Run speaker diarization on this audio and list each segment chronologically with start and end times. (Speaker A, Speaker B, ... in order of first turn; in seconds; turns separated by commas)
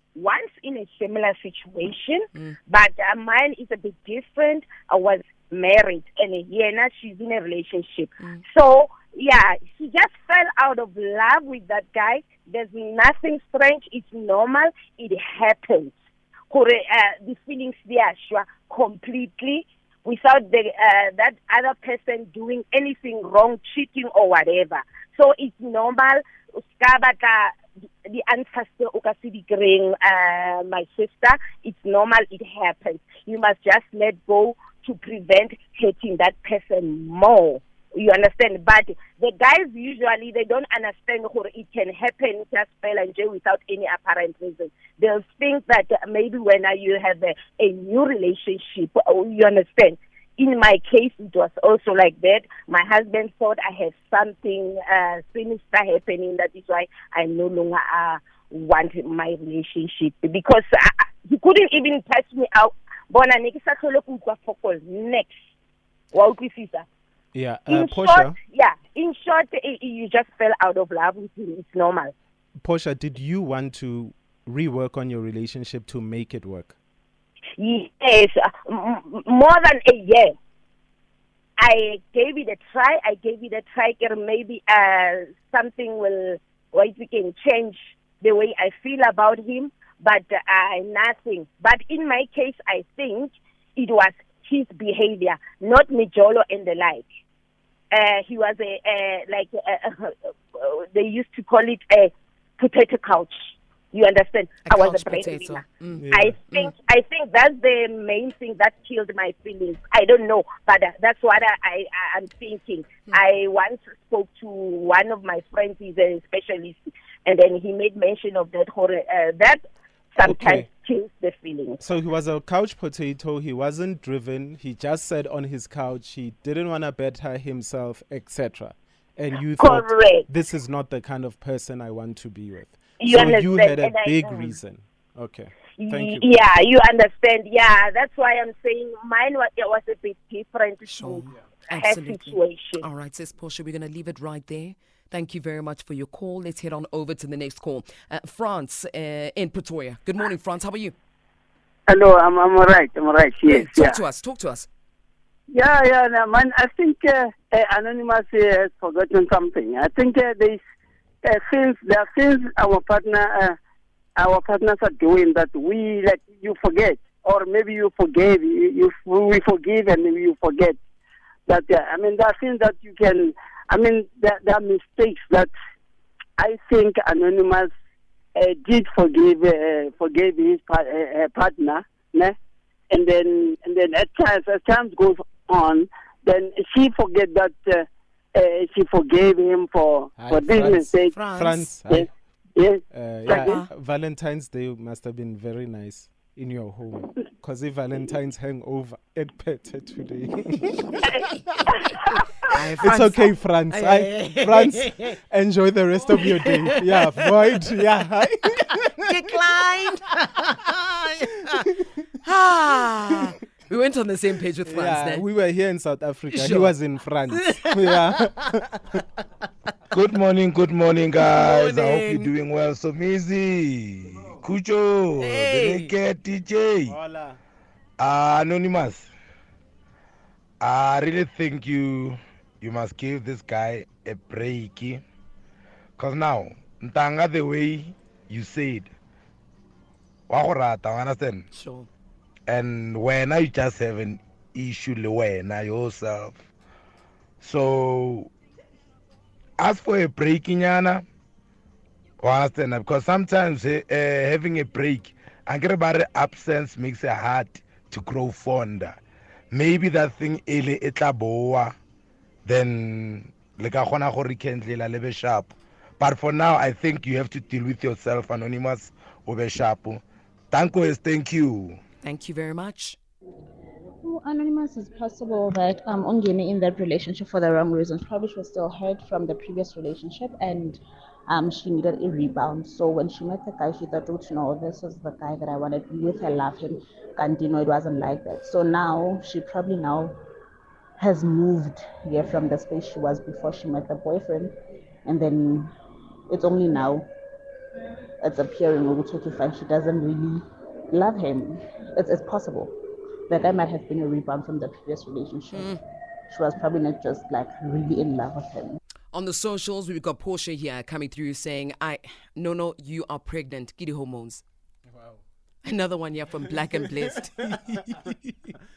Speaker A: 0.1-16.0, Speaker A: 16.5-26.2, Speaker A: 26.8-65.4, Speaker A: 66.1-66.9, Speaker B: 67.3-68.4, Speaker A: 67.7-72.1, Speaker B: 72.6-76.8, Speaker A: 77.6-80.3, Speaker A: 81.6-97.1, Speaker A: 97.9-103.3, Speaker A: 103.9-119.6, Speaker C: 104.7-106.7, Speaker B: 106.0-106.4, Speaker A: 120.2-121.8, Speaker B: 120.2-120.7, Speaker B: 121.8-136.4, Speaker A: 129.6-130.3, Speaker A: 133.0-134.6, Speaker A: 135.8-142.8, Speaker C: 140.9-150.9, Speaker D: 151.9-154.0, Speaker C: 153.5-154.7, Speaker D: 155.5-160.6, Speaker D: 161.2-163.6, Speaker D: 164.2-170.8, Speaker D: 171.5-175.5, Speaker D: 176.4-177.7, Speaker D: 178.4-182.3, Speaker D: 182.9-187.8, Speaker D: 188.4-191.2, Speaker B: 190.2-192.1, Speaker C: 191.1-191.7, Speaker D: 191.9-193.6, Speaker B: 192.9-201.0, Speaker C: 193.3-193.7, Speaker C: 201.9-205.2, Speaker B: 202.8-208.9, Speaker C: 206.2-207.6, Speaker C: 208.7-211.7, Speaker C: 212.2-215.2, Speaker B: 214.7-219.0, Speaker C: 216.3-216.8, Speaker C: 217.3-218.0, Speaker E: 219.9-227.0, Speaker C: 221.2-222.3, Speaker C: 225.2-225.9, Speaker B: 226.9-227.4, Speaker E: 228.0-229.1, Speaker E: 230.6-235.0, Speaker E: 236.0-238.9, Speaker E: 240.3-241.4, Speaker C: 241.5-241.9, Speaker E: 242.5-246.4, Speaker E: 247.4-248.3, Speaker E: 249.6-251.0, Speaker E: 252.2-259.0, Speaker E: 259.5-261.8, Speaker E: 262.4-271.8, Speaker C: 272.0-273.0, Speaker F: 274.0-290.2, Speaker F: 291.0-294.5, Speaker F: 295.1-295.7, Speaker F: 296.3-297.1, Speaker F: 298.2-302.8, Speaker F: 303.3-305.8, Speaker C: 305.5-305.8, Speaker F: 306.3-308.8, Speaker C: 309.1-314.4, Speaker C: 315.6-317.8, Speaker B: 317.7-318.1